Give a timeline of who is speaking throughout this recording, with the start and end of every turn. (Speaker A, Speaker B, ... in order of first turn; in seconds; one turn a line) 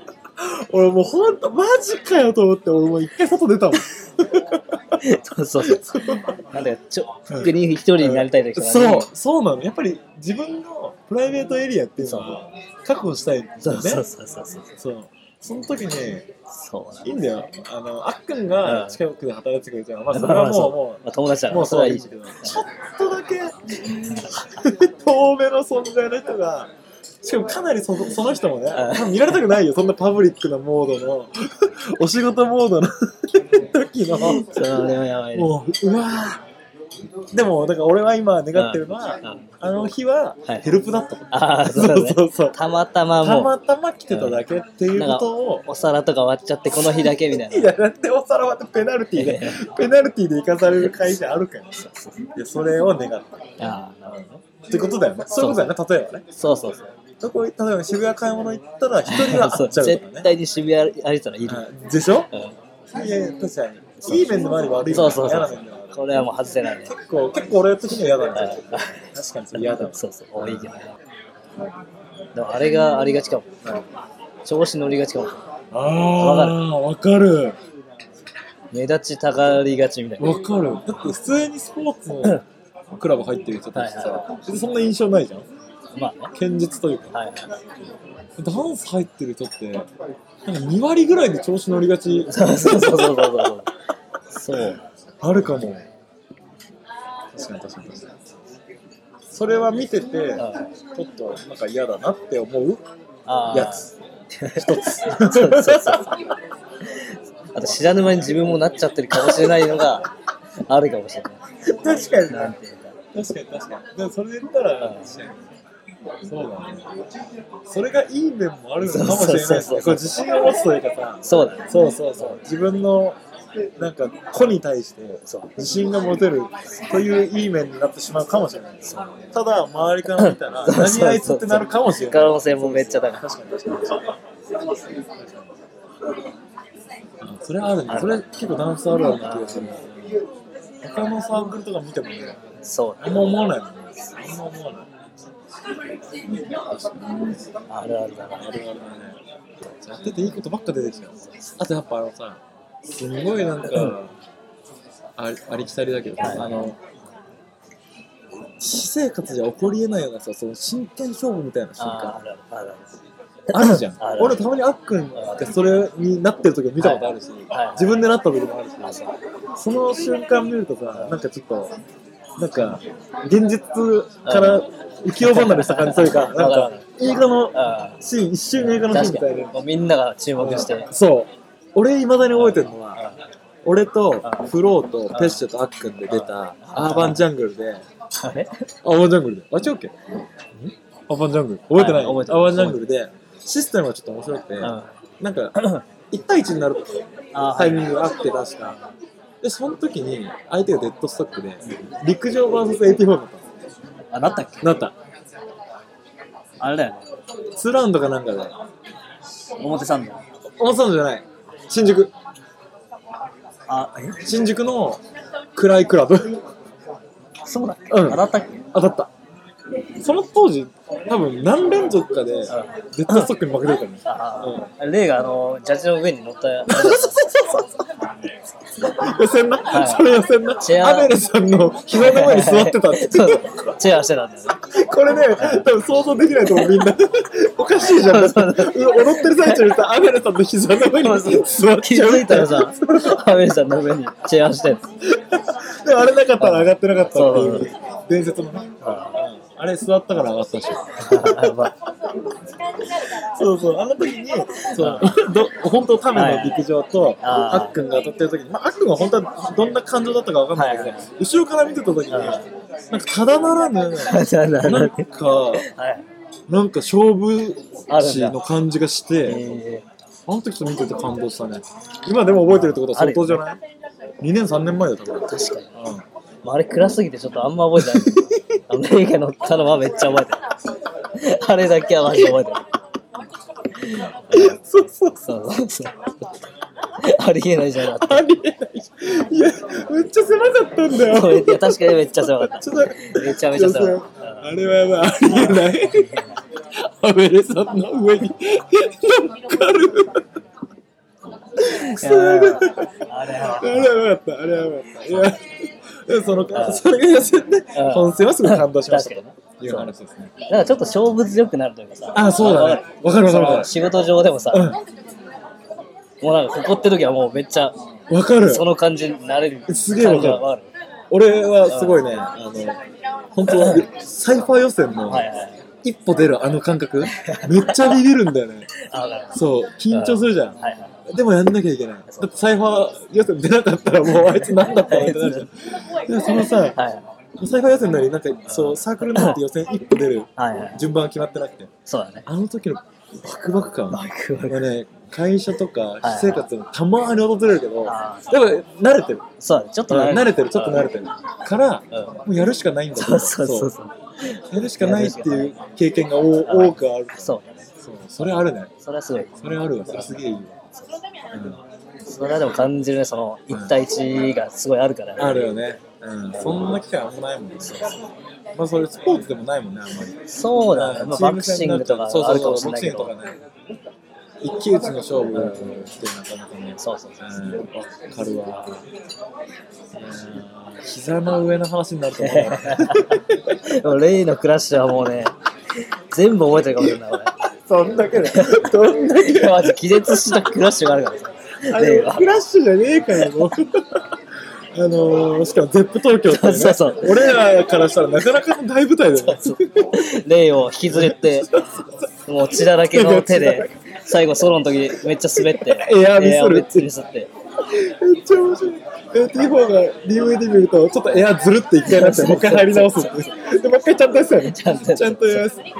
Speaker A: 0.4-5.0
Speaker B: 5.0-9.1
Speaker A: 5.6-6.4
Speaker A: 7.3-14.0
Speaker B: 12.0-12.4
Speaker B: 13.6-14.7
Speaker A: 14.8-16.3
Speaker B: 16.5-17.1
Speaker A: 17.0-26.7
Speaker B: 18.6-19.0
Speaker B: 20.1-22.6
Speaker B: 23.9-24.4
Speaker A: 27.2-36.4
Speaker B: 28.7-29.3
Speaker B: 34.2-35.5
Speaker A: 37.3-42.6
Speaker B: 38.5-39.4
Speaker B: 41.3-43.5
Speaker A: 43.2-45.6
Speaker B: 44.1-44.4
Speaker B: 44.9-47.7
Speaker A: 47.0-51.8
Speaker B: 49.1-49.6
Speaker B: 51.8-52.2
Speaker A: 52.4-53.6
Speaker B: 53.6-54.4
Speaker A: 54.6-56.2
Speaker B: 55.4-55.7
Speaker B: 56.4-56.9
Speaker A: 57.2-60.3
Speaker B: 59.1-61.6
Speaker A: 61.5-62.3
Speaker B: 62.3-62.6
Speaker A: 62.9-65.9
Speaker B: 64.0-64.3
Speaker B: 64.9-66.9
Speaker A: 66.8-68.6
Speaker B: 68.3-70.9
Speaker A: 69.1-70.7
Speaker B: 72.3-73.8
Speaker B: 74.4-75.4
Speaker A: 75.7-77.6
Speaker B: 76.2-76.6
Speaker B: 78.7-80.3
Speaker A: 80.2-85.5
Speaker B: 83.7-84.3
Speaker B: 85.9-86.3
Speaker A: 86.3-87.1
Speaker B: 87.1-87.5
Speaker A: 88.4-89.9
Speaker A: 90.4-93.5
Speaker B: 92.3-93.7
Speaker B: 94.3-94.9
Speaker A: 95.2-95.8
Speaker A: 97.3-98.1
Speaker A: 99.3-102.8
Speaker B: 100.4-100.7
Speaker B: 103.2-106.1
Speaker A: 103.5-103.9
Speaker A: 104.5-106.2
Speaker B: 106.8-110.1
Speaker B: 110.7-113.0
Speaker A: 111.8-112.5
Speaker A: 113.1-115.4
Speaker B: 114.8-115.1
Speaker A: 116.2-116.9
Speaker A: 117.6-123.2
Speaker B: 118.8-120.2
Speaker B: 121.2-122.4
Speaker A: 123.8-134.0
Speaker B: 125.2-125.5
Speaker B: 128.8-129.3
Speaker B: 130.2-133.3
Speaker A: 135.0-135.5
Speaker A: 137.2-140.2
Speaker B: 137.9-138.2
Speaker B: 139.2-139.8
Speaker A: 140.8-142.4
Speaker B: 142.6-143.4
Speaker A: 143.0-144.9
Speaker A: 146.5-147.4
Speaker B: 147.7-148.5
Speaker A: 148.4-149.2
Speaker A: 149.8-154.1
Speaker A: 155.2-156.8
Speaker B: 156.2-156.5
Speaker A: 158.6-162.2
Speaker B: 161.8-162.9
Speaker A: 163.5-169.0
Speaker B: 163.5-164.4
Speaker B: 165.2-165.4
Speaker B: 166.8-168.1
Speaker A: 169.5-171.7
Speaker A: 172.4-179.5
Speaker B: 174.2-174.6
Speaker B: 175.2-176.9
Speaker B: 177.5-178.0
Speaker B: 178.6-180.9
Speaker A: 180.4-183.0
Speaker B: 182.3-183.2
Speaker A: 183.6-187.8
Speaker B: 184.2-184.5
Speaker B: 185.1-185.4
Speaker B: 186.1-187.2
Speaker B: 188.2-188.7
Speaker A: 188.8-189.9
Speaker A: 190.6-195.5
Speaker B: 191.7-192.8
Speaker B: 194.6-194.9
Speaker B: 195.6-195.8
Speaker A: 196.1-196.9
Speaker B: 197.3-197.9
Speaker A: 197.5-198.8
Speaker A: 199.4-203.4
Speaker B: 204.1-204.7
Speaker A: 204.6-204.9
Speaker B: 206.6-207.0
Speaker A: 207.5-208.6
Speaker B: 209.6-210.2
Speaker A: 210.6-212.1
Speaker B: 213.7-214.2
Speaker A: 214.2-215.0
Speaker A: 215.5-216.4
Speaker B: 217.4-218.7
Speaker A: 217.9-219.1
Speaker A: 220.0-224.7
Speaker B: 222.5-223.3
Speaker B: 224.0-227.2
Speaker A: 226.7-227.8
Speaker A: 228.8-233.7
Speaker B: 229.7-230.1
Speaker B: 230.6-231.1
Speaker B: 231.9-234.6
Speaker A: 234.7-243.2
Speaker B: 235.4-235.7
Speaker B: 237.8-239.7
Speaker B: 240.8-244.9
Speaker A: 245.1-251.7
Speaker B: 246.4-247.7
Speaker B: 248.8-249.2
Speaker B: 251.0-251.7
Speaker A: 253.0-265.6
Speaker B: 254.7-255.2
Speaker B: 256.1-256.6
Speaker B: 257.2-257.7
Speaker B: 260.5-261.1
Speaker B: 262.1-262.5
Speaker B: 264.0-266.0
Speaker A: 266.5-269.4
Speaker B: 267.9-268.4
Speaker B: 269.2-269.9
Speaker A: 270.3-273.6
Speaker B: 272.5-273.4
Speaker A: 274.2-276.0
Speaker B: 275.2-275.7
Speaker B: 276.4-280.4
Speaker A: 277.8-278.6
Speaker B: 281.1-282.6
Speaker B: 283.8-284.6
Speaker A: 284.3-285.2
Speaker B: 285.2-286.5
Speaker B: 287.0-288.2
Speaker A: 287.9-296.2
Speaker B: 291.0-294.5
Speaker B: 295.2-296.4
Speaker A: 296.8-300.3
Speaker A: 301.6-310.3
Speaker B: 301.6-304.0
Speaker B: 306.5-306.8
Speaker B: 307.7-309.9
Speaker B: 310.5-314.7
Speaker A: 312.1-313.7
Speaker A: 314.5-314.8
Speaker B: 316.2-317.8
Speaker A: 318.1-318.7
Speaker B: 318.4-320.7
Speaker A: 319.7-320.4
Speaker A: 321.1-322.8
Speaker B: 321.7-322.1
Speaker A: 323.3-325.3
Speaker B: 323.5-323.8
Speaker B: 325.1-325.6
Speaker A: 325.8-328.7
Speaker B: 327.1-328.0
Speaker B: 328.8-329.4
Speaker A: 329.3-330.6
Speaker B: 329.9-330.9
Speaker A: 331.1-336.8
Speaker B: 332.1-332.4
Speaker B: 334.1-335.4
Speaker B: 336.7-337.1
Speaker A: 337.4-341.7
Speaker B: 338.5-339.4
Speaker B: 340.4-340.8
Speaker B: 341.9-342.2
Speaker A: 342.2-349.2
Speaker B: 343.9-344.6
Speaker B: 346.0-346.4
Speaker B: 347.8-348.6
Speaker B: 349.4-350.9
Speaker A: 349.9-353.7
Speaker B: 351.9-352.2
Speaker B: 352.9-355.6
Speaker A: 354.5-358.7
Speaker B: 356.4-357.5
Speaker B: 358.8-360.1
Speaker A: 359.4-360.6
Speaker A: 361.3-361.6
Speaker B: 362.1-365.5
Speaker A: 363.5-363.8
Speaker A: 365.2-367.9
Speaker B: 367.6-368.0
Speaker A: 368.5-370.2
Speaker B: 370.3-373.1
Speaker A: 370.7-373.4
Speaker A: 374.4-378.8
Speaker B: 375.3-375.7
Speaker B: 376.8-377.3
Speaker A: 379.9-383.6
Speaker B: 382.2-385.3
Speaker B: 386.1-387.3
Speaker A: 386.8-390.3
Speaker B: 388.3-392.3
Speaker A: 391.7-394.1
Speaker A: 394.7-400.1
Speaker B: 396.3-397.4
Speaker B: 399.2-401.5
Speaker A: 400.9-401.9
Speaker B: 402.2-407.3
Speaker A: 402.4-403.7
Speaker A: 405.3-406.9
Speaker A: 407.6-415.6
Speaker B: 411.8-413.3
Speaker B: 414.4-415.4